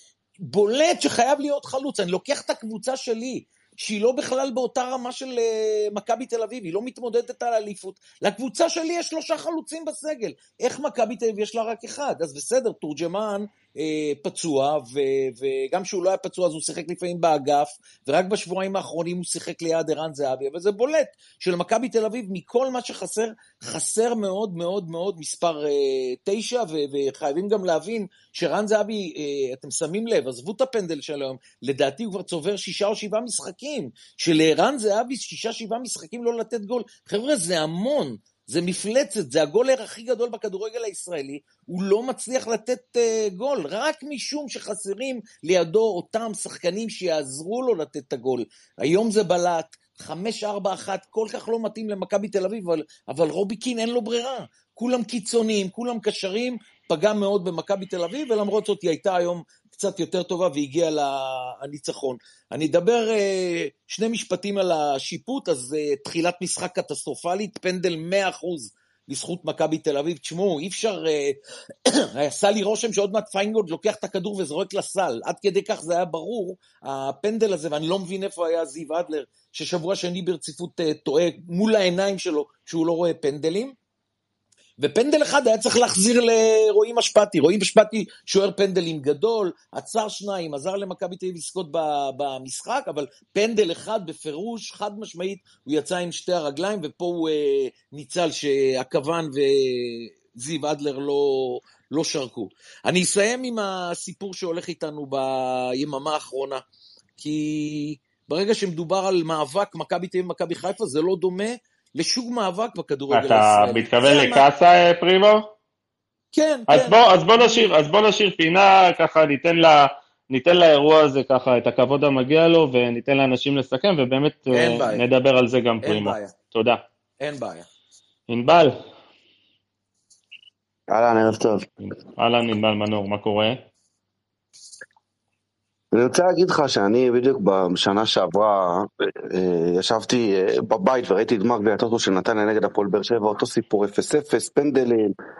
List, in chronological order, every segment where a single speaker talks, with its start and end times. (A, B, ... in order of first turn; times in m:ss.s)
0:00.4-1:23.7 A
1:24.8-1:46.6 A
1:47.2-1:54.4 A
1:53.1-1:55.5 B
1:56.3-1:57.7 A
1:56.7-2:06.8 B
2:04.5-2:05.0 A
2:05.8-2:06.4 A
2:07.2-2:07.7 A
2:08.3-2:08.8 B
2:10.9-2:11.7 C
2:12.2-2:13.6 B
2:15.9-2:25.1 C